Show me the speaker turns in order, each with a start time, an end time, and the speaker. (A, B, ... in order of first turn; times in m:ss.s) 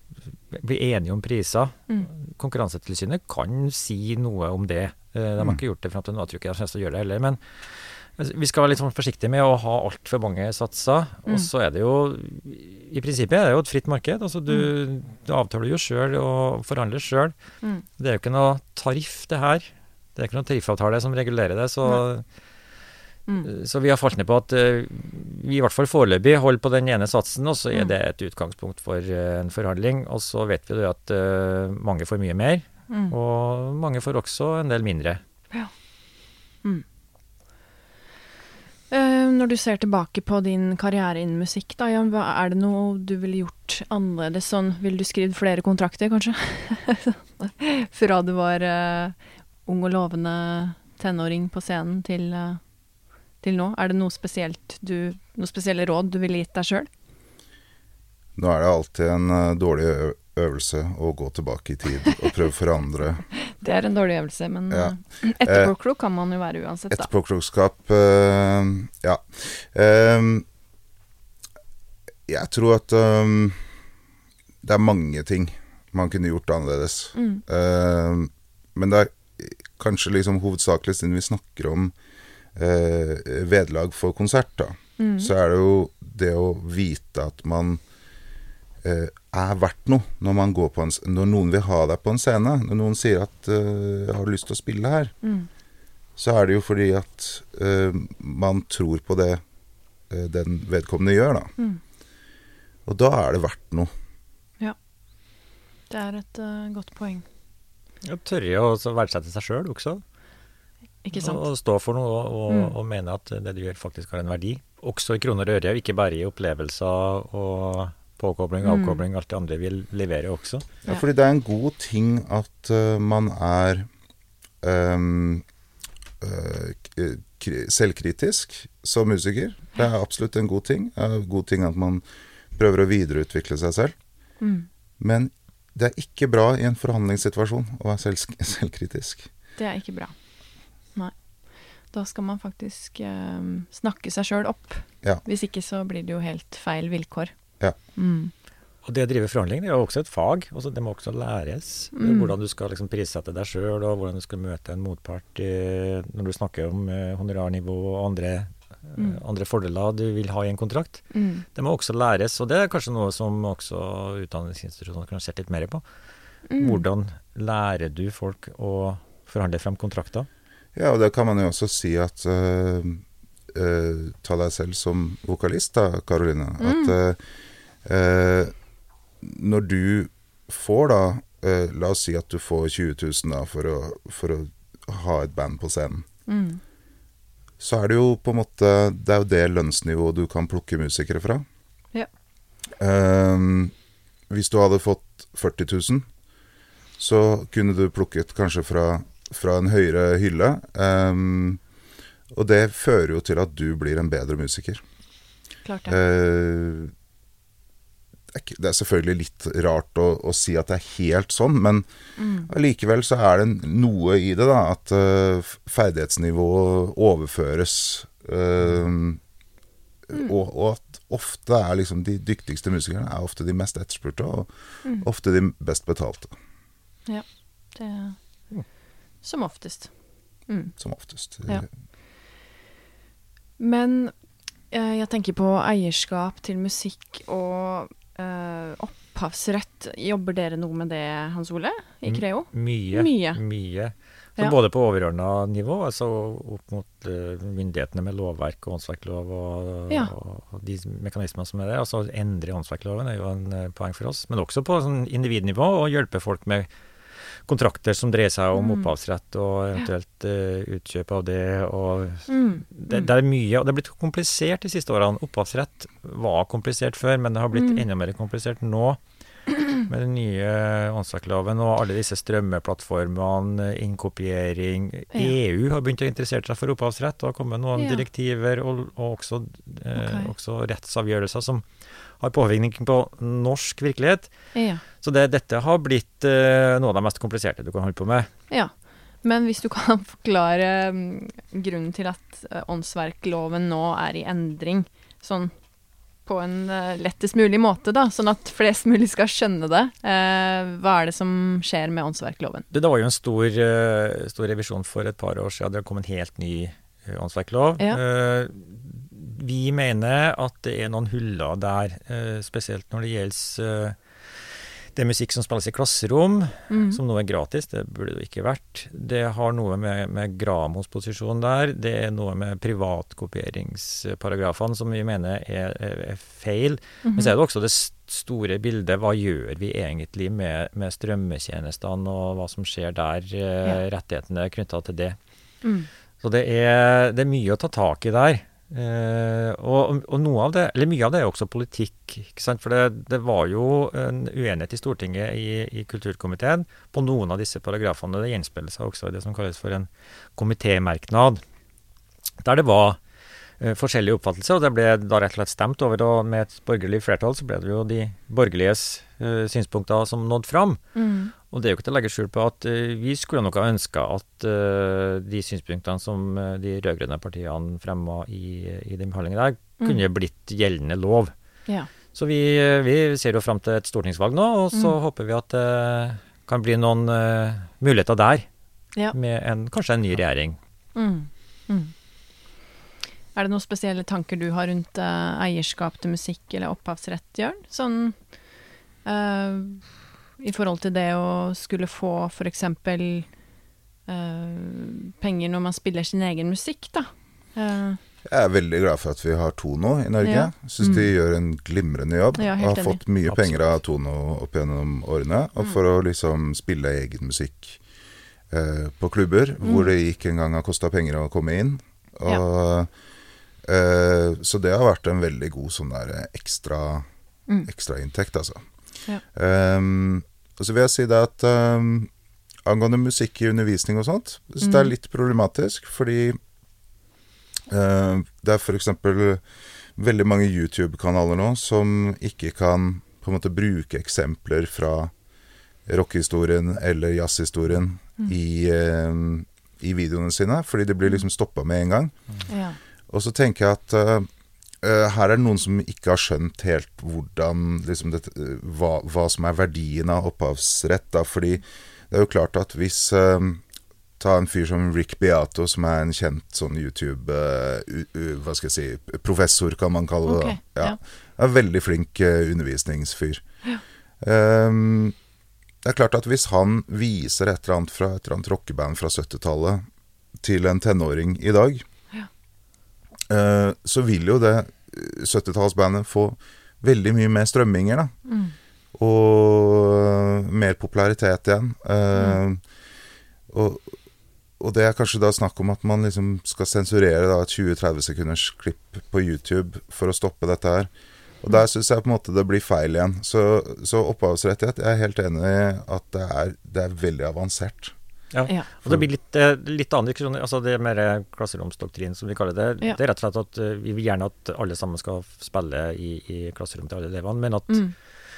0:00.5-0:17.3 A
0:18.0-0:22.2 A
0:23.4-0:35.2 A
0:32.9-0:33.1 B
0:38.9-0:52.6 B
0:53.4-0:56.9 B
0:58.4-1:03.2 C
1:03.3-1:07.1 B
1:04.7-1:05.7 C
1:06.9-1:10.4 C
1:12.3-1:13.6 C
1:14.6-1:21.9 C
1:17.1-1:17.4 B
1:22.5-1:27.8 C
1:25.0-1:25.3 B
1:28.8-1:35.1 C
1:35.2-1:35.5 B
1:36.2-1:39.4 C
1:40.1-1:41.5 C
1:42.8-1:43.9 C
1:45.9-1:47.2 B
1:48.0-1:50.0 A
1:51.0-1:51.4 B
1:51.2-2:00.6 A
1:52.5-1:52.7 B
1:58.6-1:59.0 B
2:00.8-2:03.9 C
2:04.6-2:05.4 C
2:06.2-2:12.0 C
2:12.5-2:13.9 C
2:14.4-2:14.7 B
2:15.0-2:19.3 C
2:19.6-2:20.1 B
2:21.9-2:27.3 B
2:28.0-2:28.3 B
2:28.8-2:45.8 A
2:31.9-2:32.3 B
2:41.1-2:41.4 B
2:46.5-2:46.8 B
2:46.6-2:50.3 A
2:50.7-2:57.2 C
2:56.6-2:56.9 B
2:57.8-2:58.5 C
2:59.2-3:06.0 C
3:06.3-3:06.6 B
3:07.6-3:11.4 C
3:12.8-3:13.7 C
3:14.3-3:16.1 C
3:17.0-3:21.6 C
3:22.3-3:24.8 C
3:25.6-3:26.0 B
3:25.9-3:26.9 C
3:28.3-3:31.8 C
3:32.2-3:32.5 B
3:32.5-3:39.2 C
3:40.1-3:46.3 C
3:47.1-3:48.2 B
3:49.2-3:49.9 B
3:50.5-3:50.7 B
3:50.8-3:51.7 C
3:53.6-3:54.1 B
3:54.7-4:03.4 B
4:02.1-4:16.7 A
4:17.4-4:29.0 A
4:18.6-4:18.9 B
4:22.3-4:23.1 B
4:27.5-4:27.8 B
4:29.7-4:44.3 A
4:37.8-4:38.0 B
4:39.9-4:40.3 B
4:44.5-4:44.8 B
4:45.0-4:48.3 A
4:48.5-4:55.5 B
4:56.2-5:02.6 B
5:02.7-5:35.2 A
5:16.7-5:17.0 B
5:27.0-5:27.3 B
5:36.2-5:51.4 A
5:52.4-5:53.0 A
5:53.6-6:00.8 A
6:00.9-6:01.3 B
6:01.5-6:11.3 A
6:12.1-6:18.5 A
6:19.1-6:20.6 A
6:20.9-6:21.9 B
6:23.3-6:28.2 B
6:29.0-6:33.3 B
6:34.1-6:38.0 B
6:38.2-6:47.8 C
6:40.2-6:41.1 B
6:42.4-6:43.0 B
6:43.3-6:43.7 A
6:48.5-6:52.9 C
6:49.6-6:49.9 B
6:53.6-6:57.0 C
6:57.6-6:58.6 C
6:59.3-7:02.1 C
7:02.6-7:06.4 C
7:04.6-7:04.9 B
7:07.7-7:09.4 C
7:10.0-7:15.1 C
7:15.9-7:22.1 C
7:22.5-7:22.8 B
7:23.1-7:24.3 C
7:24.8-7:33.6 C
7:34.2-7:43.4 C
7:40.2-7:41.0 B
7:44.2-7:45.1 C
7:45.8-7:49.8 C
7:50.4-7:51.8 C
7:53.3-7:58.1 C
7:58.2-7:58.5 B
7:58.9-8:02.6 C
8:03.5-8:03.9 C
8:04.6-8:10.9 C
8:11.4-8:17.9 C
8:18.3-8:27.8 A
8:27.7-8:27.9 B